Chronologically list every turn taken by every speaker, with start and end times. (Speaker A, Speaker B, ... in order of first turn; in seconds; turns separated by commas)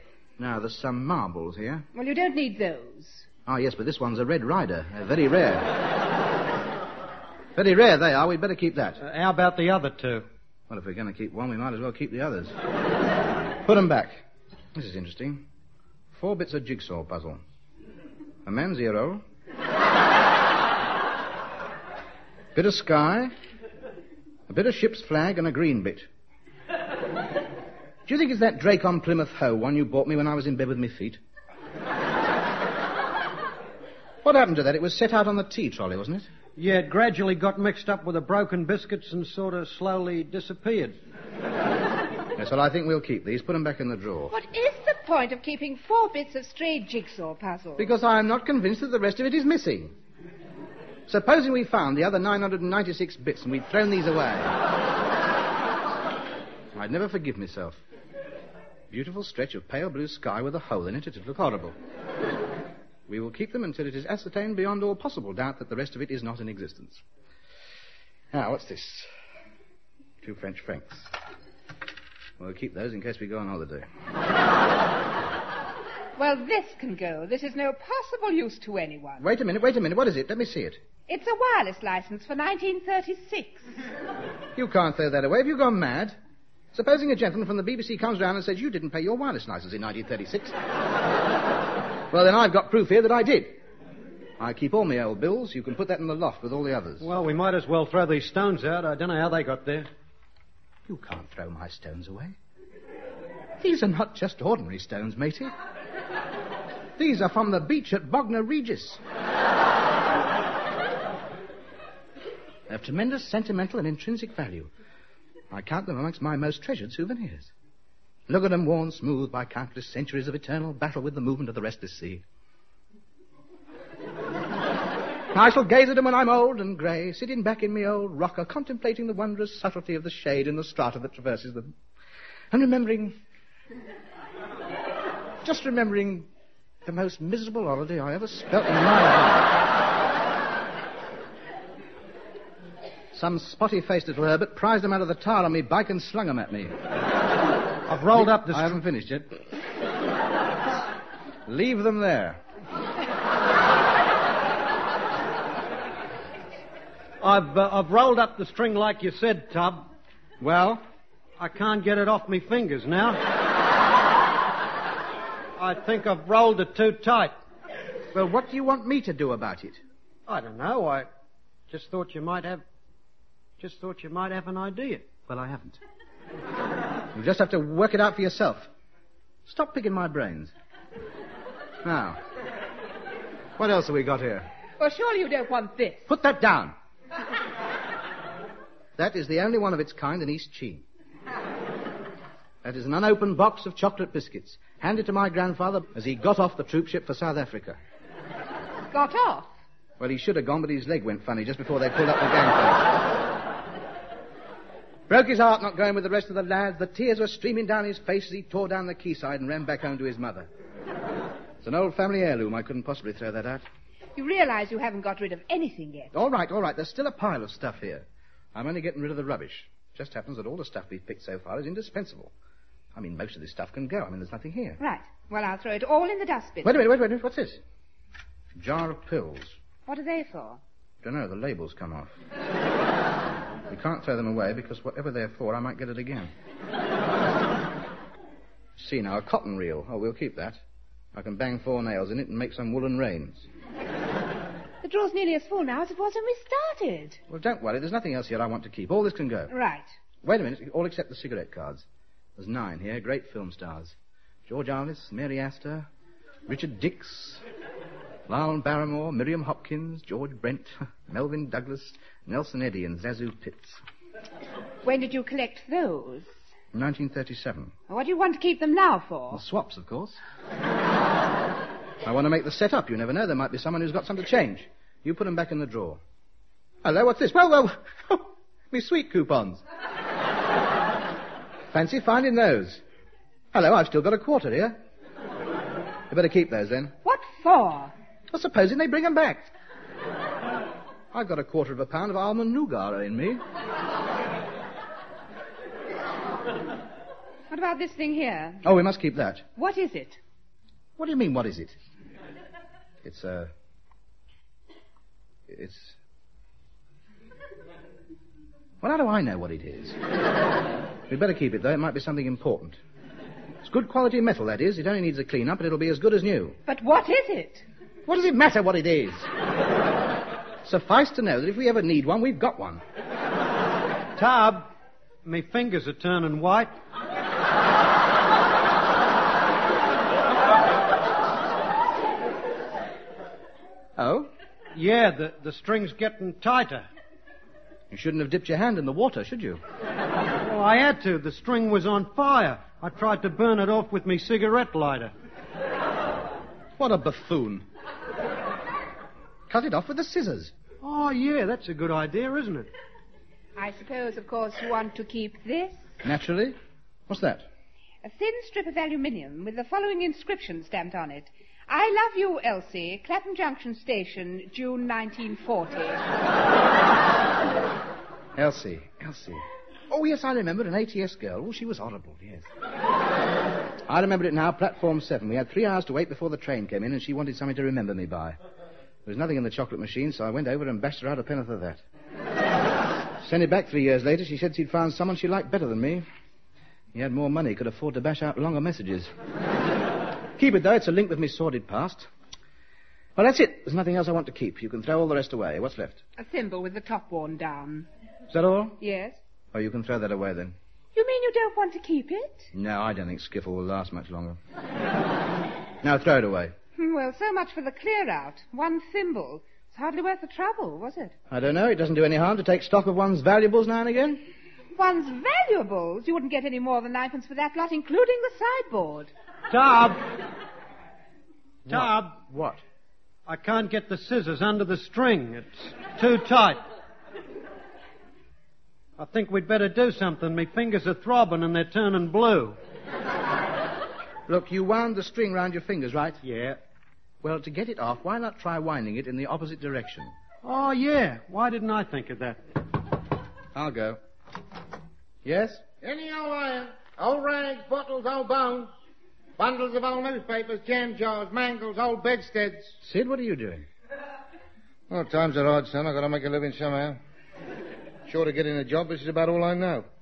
Speaker A: 0.4-1.8, Speaker B: 1.9-3.3, Speaker A: 3.5-5.8, Speaker A: 7.6-9.0, Speaker C: 9.0-10.2, Speaker A: 10.7-12.5, Speaker A: 13.6-14.2, Speaker A: 14.8-15.4, Speaker A: 16.1-17.4, Speaker A: 18.4-19.2, Speaker A: 22.5-23.3, Speaker A: 24.5-26.1, Speaker A: 28.1-31.2, Speaker A: 34.2-36.3, Speaker C: 36.6-41.0, Speaker A: 42.4-44.3, Speaker B: 44.3-47.9, Speaker A: 47.8-49.9, Speaker A: 51.1-54.5, Speaker A: 56.8-57.8, Speaker A: 58.9-61.8, Speaker A: 63.1-67.0, Speaker A: 68.3-69.1, Speaker A: 70.2-71.1, Speaker A: 72.4-73.9, Speaker B: 76.2-79.2, Speaker A: 79.2-80.8, Speaker B: 81.1-83.7, Speaker A: 84.6-86.2, Speaker A: 86.7-90.5, Speaker A: 92.1-93.5, Speaker A: 94.4-97.1, Speaker C: 97.0-99.9, Speaker A: 100.9-102.4, Speaker A: 103.6-105.5, Speaker A: 107.0-109.0, Speaker A: 112.7-114.7, Speaker A: 115.5-117.5, Speaker A: 118.3-122.2, Speaker A: 125.3-131.7, Speaker A: 132.5-133.2, Speaker A: 135.4-136.3, Speaker A: 136.8-139.6, Speaker A: 143.1-146.7, Speaker C: 147.9-148.8, Speaker A: 148.1-149.3, Speaker A: 151.5-152.4, Speaker C: 157.2-159.9, Speaker A: 160.4-160.8, Speaker C: 161.4-163.2, Speaker C: 165.6-167.3, Speaker A: 168.1-169.8, Speaker C: 170.3-171.1, Speaker C: 171.7-172.6, Speaker C: 173.6-175.8, Speaker A: 177.1-178.7, Speaker A: 179.5-180.5, Speaker A: 181.8-182.2, Speaker A: 183.6-184.5, Speaker B: 184.8-186.1, Speaker A: 186.1-186.7, Speaker A: 189.0-190.8, Speaker A: 192.6-197.8, Speaker B: 198.9-199.5, Speaker A: 200.0-202.9, Speaker A: 205.1-210.5, Speaker A: 211.6-213.6, Speaker B: 214.2-216.1, Speaker A: 216.1-222.3, Speaker A: 222.9-224.8, Speaker B: 224.8-226.8, Speaker A: 226.6-227.6, Speaker A: 228.6-229.6, Speaker B: 229.9-230.6, Speaker A: 231.0-232.1, Speaker A: 233.7-236.3, Speaker A: 238.8-240.6, Speaker A: 241.2-243.5, Speaker B: 244.8-247.2, Speaker A: 247.3-249.5, Speaker B: 249.5-249.9, Speaker A: 250.2-251.8, Speaker A: 252.4-253.9, Speaker A: 254.5-255.9, Speaker A: 256.5-257.4, Speaker A: 258.3-263.8, Speaker B: 264.8-266.3, Speaker A: 266.7-267.7, Speaker B: 267.9-269.4, Speaker A: 269.3-270.2, Speaker A: 272.0-276.0, Speaker A: 276.8-279.6, Speaker A: 281.7-282.8, Speaker A: 283.5-284.8, Speaker A: 286.1-286.9, Speaker B: 287.0-287.9, Speaker A: 288.3-289.5, Speaker A: 291.1-293.4, Speaker B: 297.5-298.6, Speaker A: 298.6-299.5, Speaker B: 299.6-300.2, Speaker A: 301.0-301.8, Speaker A: 303.0-303.5, Speaker A: 305.5-305.9, Speaker A: 308.8-310.0, Speaker A: 311.1-312.8, Speaker A: 313.6-316.6, Speaker B: 316.7-317.6, Speaker A: 318.1-319.3, Speaker A: 320.6-322.8, Speaker C: 324.2-324.7, Speaker C: 325.2-326.7, Speaker A: 334.0-334.3, Speaker C: 334.8-336.9, Speaker A: 337.9-339.6, Speaker C: 340.4-345.1, Speaker A: 346.8-347.6, Speaker A: 349.5-350.5, Speaker C: 350.8-352.7, Speaker B: 353.6-355.8, Speaker A: 356.0-356.6, Speaker A: 357.1-357.5, Speaker B: 358.0-366.1, Speaker A: 368.4-372.5, Speaker A: 373.9-378.4, Speaker A: 379.1-381.8, Speaker A: 383.2-386.0, Speaker A: 386.9-389.1, Speaker A: 390.4-392.1, Speaker A: 393.2-396.0, Speaker B: 396.2-397.9, Speaker A: 398.3-398.8, Speaker B: 398.8-399.2, Speaker A: 399.5-400.6, Speaker B: 400.9-402.5, Speaker A: 402.5-404.4, Speaker A: 405.8-406.5, Speaker B: 406.8-411.1, Speaker A: 411.3-414.2, Speaker B: 414.8-419.1, Speaker C: 419.5-420.0, Speaker C: 421.7-422.2, Speaker A: 421.7-422.6, Speaker C: 423.3-426.6, Speaker C: 429.0-432.6, Speaker A: 434.3-436.2, Speaker C: 436.2-436.6, Speaker A: 437.2-440.1, Speaker C: 440.4-442.4, Speaker A: 443.6-444.0, Speaker A: 445.2-445.6, Speaker D: 445.8-448.7, Speaker D: 449.4-452.8, Speaker A: 452.8-453.7, Speaker D: 454.9-457.0, Speaker D: 458.1-459.9